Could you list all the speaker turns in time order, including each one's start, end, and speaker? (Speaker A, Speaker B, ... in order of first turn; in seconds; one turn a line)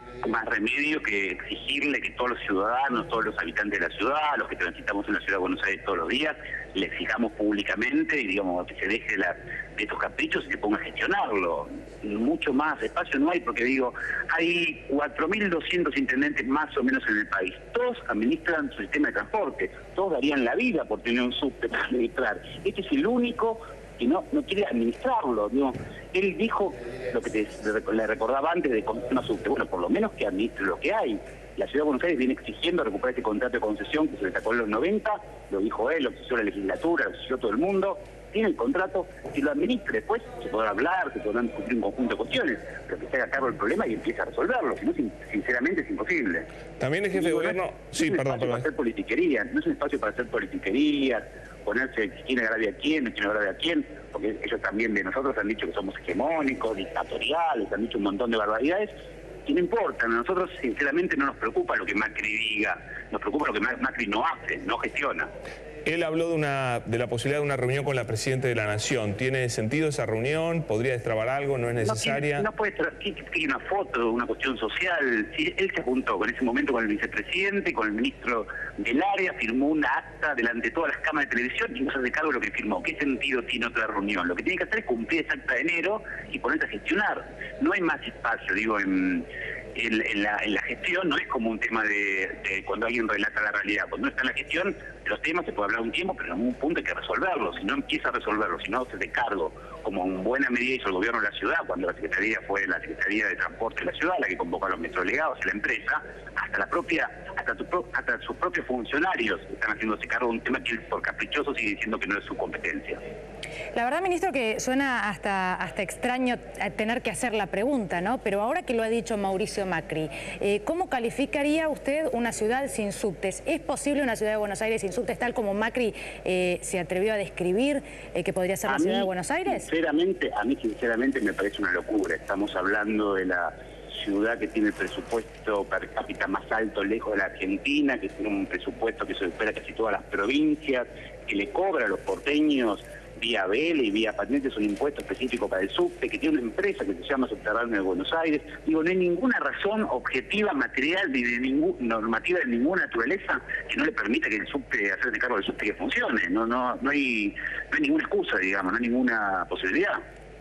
Speaker A: 0.2-46.5
Speaker B: 46.8-48.7
Speaker A: 47.1-58.9
Speaker A: 59.5-65.3
Speaker B: 65.9-72.5
Speaker A: 71.8-113.0
Speaker C: 113.7-129.7
Speaker A: 128.7-160.0